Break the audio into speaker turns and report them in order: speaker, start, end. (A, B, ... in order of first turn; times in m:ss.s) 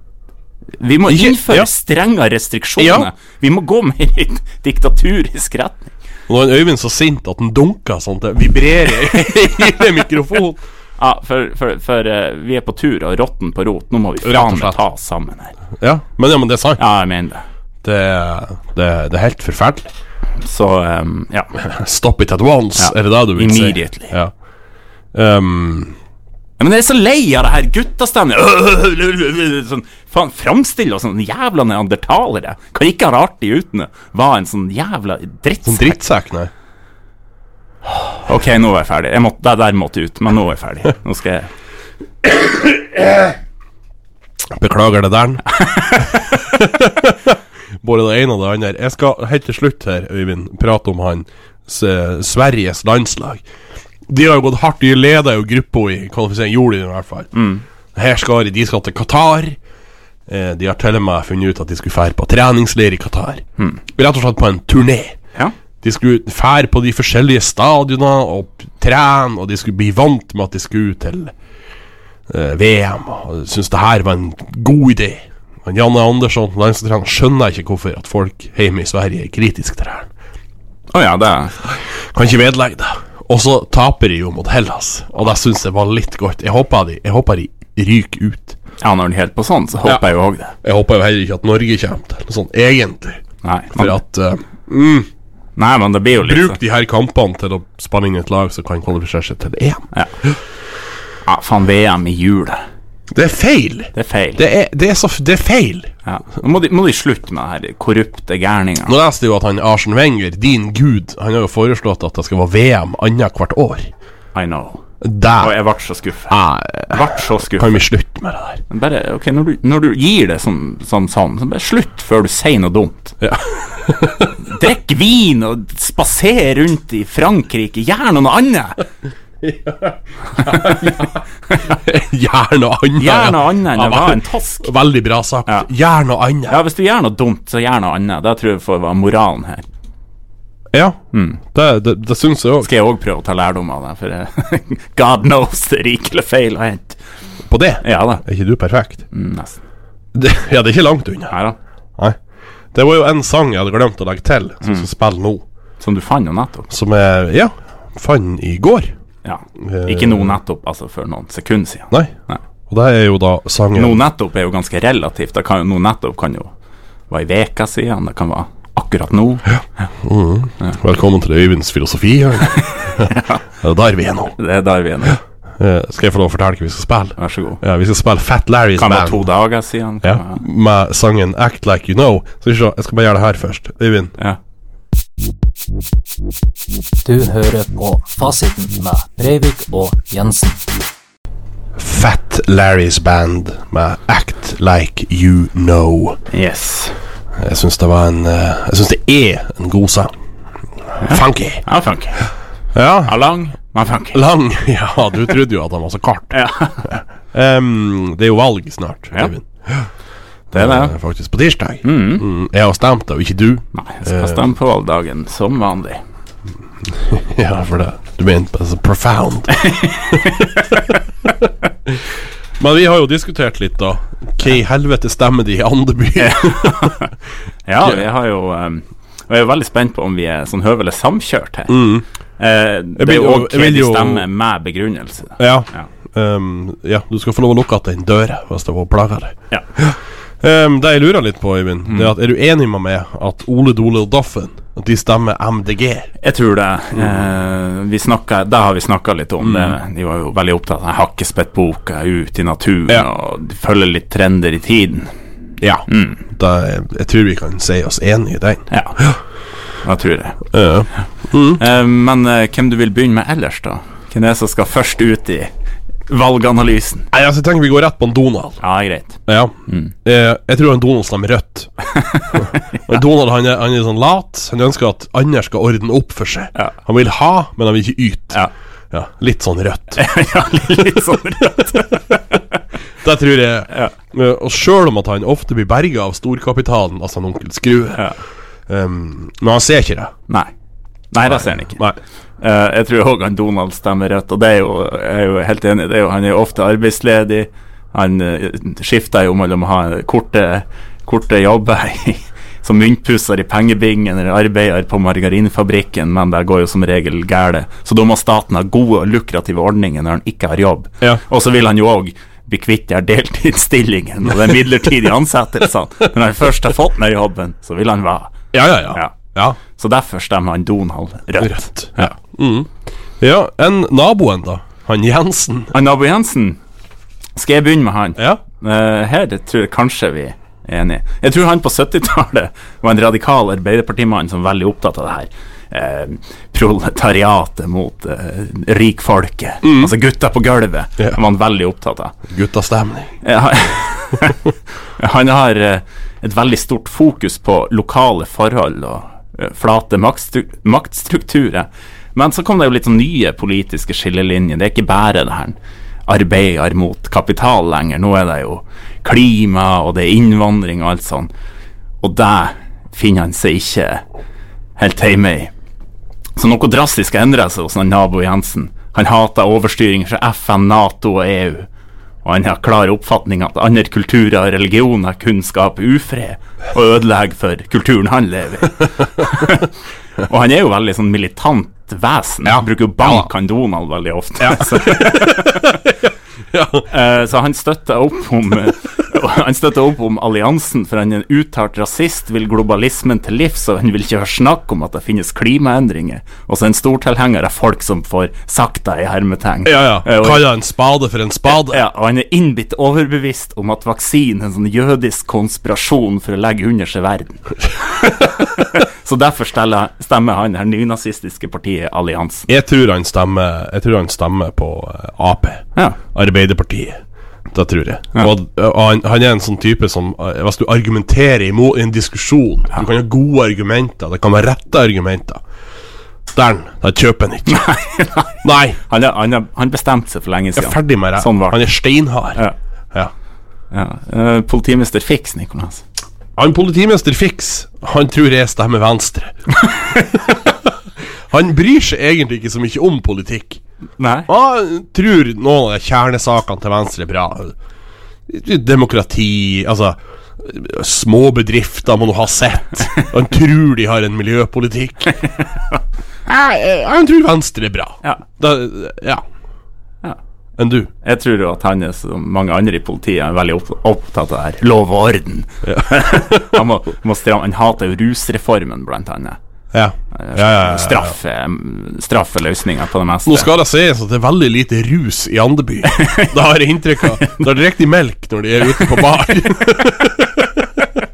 0:00.8-0:05.9 A
0:01.1-0:01.7 B
0:02.8-0:03.1 B
0:06.3-0:10.6 B
0:11.0-0:15.6 A
0:14.2-0:14.8 B
0:15.8-0:16.8 B
0:16.8-0:17.4 A
0:17.8-0:19.9 B
0:20.4-0:21.5 A
0:21.6-0:24.3 B
0:22.8-0:24.2 A
0:25.1-0:26.0 B
0:26.6-0:36.0 A
0:35.6-0:36.5 B
0:38.1-0:41.5 A
0:42.2-0:43.4 B
0:44.5-0:53.4 B
0:45.6-0:46.2 A
0:54.1-0:57.3 B
0:57.3-0:57.6 A
0:58.0-0:59.6 B
1:00.3-1:05.2 B
1:05.8-1:11.3 B
1:12.3-1:20.1 B
1:20.9-1:21.6 A
1:21.7-1:28.6 B
1:28.8-1:30.6 A
1:30.6-1:33.2 B
1:33.4-1:34.0 A
1:33.7-1:35.1 B
1:35.6-1:36.6 A
1:36.2-1:40.4 B
1:41.2-1:42.6 A
1:43.1-1:45.9 B
1:43.9-1:44.4 A
1:46.1-1:49.0 A
1:48.9-1:53.9 B
1:54.4-1:54.8 A
1:55.0-1:55.6 B
1:55.4-1:56.4 A
1:56.3-1:58.6 B
1:56.9-1:57.8 A
1:58.7-2:03.2 A
2:03.2-2:04.4 B
2:04.4-2:08.8 A
2:09.4-2:16.6 B
2:10.4-2:11.7 A
2:13.0-2:14.7 A
2:16.5-2:19.7 A
2:20.7-2:22.7 B
2:21.1-2:21.4 A
2:22.6-2:27.0 A
2:27.5-2:29.0 B
2:27.8-2:28.2 A
2:29.1-2:29.6 A
2:30.2-2:31.4 B
2:31.3-2:31.6 A
2:32.7-2:35.4 B
2:35.8-2:36.7 A
2:36.7-2:38.9 B
2:39.2-2:42.4 A
2:39.6-2:40.4 B
2:42.7-2:44.0 B
2:43.8-2:46.5 A
2:47.1-2:49.9 A
2:50.0-2:54.4 B
2:52.6-2:53.4 A
2:54.4-2:55.2 A
2:55.6-2:59.2 B
2:57.2-2:57.6 A
2:58.8-3:00.4 A
3:00.0-3:04.1 B
3:07.0-3:10.6 C
3:11.8-3:16.2 B
3:16.3-3:17.0 A
3:17.4-3:20.1 B
3:21.0-3:22.2 A
3:21.0-3:21.6 B
3:22.7-3:23.2 B
3:23.0-3:24.2 A
3:24.1-3:26.4 B
3:26.3-3:27.0 A
3:26.9-3:29.9 B
3:30.5-3:34.5 B
3:30.5-3:30.9 A
3:31.8-3:32.2 A
3:33.7-3:36.0 A
3:36.8-3:40.9 B
3:39.5-3:41.0 A
3:42.6-3:47.0 B
3:46.2-3:47.1 A
3:47.7-3:51.8 A
3:51.7-3:52.0 B
3:52.4-3:55.9 A
3:53.0-3:54.2 B
3:55.4-4:06.1 B
4:06.2-4:15.1 A
4:09.4-4:09.8 B
4:15.6-4:19.2 B
4:15.9-4:16.2 A
4:18.7-4:19.0 A
4:19.8-4:20.4 A
4:20.5-4:21.6 B
4:21.6-4:25.5 A
4:26.1-4:27.1 A
4:27.1-4:28.6 B
4:28.6-4:29.9 A
4:29.3-4:29.5 B
4:30.0-4:31.7 B
4:31.9-4:32.8 A
4:32.3-4:38.4 B
4:38.9-4:40.0 B
4:40.0-4:42.4 A
4:43.0-4:48.1 B
4:48.7-4:50.1 B
4:51.1-4:51.8 A
4:51.3-4:52.0 B
4:52.4-5:18.4 A
5:18.5-5:19.6 B
5:18.9-5:22.1 A
5:21.4-5:22.7 B
5:23.2-5:25.7 B
5:25.7-5:26.6 A
5:27.4-5:42.2 A
5:39.6-5:39.9 B
5:42.3-5:43.1 B
5:43.2-5:44.4 A
5:45.0-5:55.6 A
5:56.1-6:01.3 A
6:02.0-6:04.0 A
6:04.8-6:05.5 A
6:06.4-6:11.7 A
6:12.2-6:25.8 A
6:22.4-6:23.3 B
6:24.4-6:26.9 B
6:26.9-6:40.5 A
6:39.6-6:41.8 B
6:41.5-6:52.5 A
6:52.5-6:57.0 B
6:57.5-7:05.4 B
7:06.3-7:07.6 B
7:07.5-7:11.6 A
7:08.4-7:08.8 B
7:10.6-7:12.4 B
7:13.7-7:15.8 A
7:16.4-7:19.4 B
7:20.0-7:20.7 B
7:21.3-7:23.6 B
7:24.0-7:24.3 A
7:24.3-7:27.6 B
7:28.3-7:35.2 B
7:35.2-7:35.8 A
7:36.3-7:39.2 B
7:40.6-7:40.9 B
7:41.0-7:49.4 A
7:45.6-7:46.6 B
7:49.7-7:51.2 B
7:50.2-7:53.5 A
7:53.3-8:00.8 B
7:55.9-7:56.3 A
7:58.7-7:59.1 A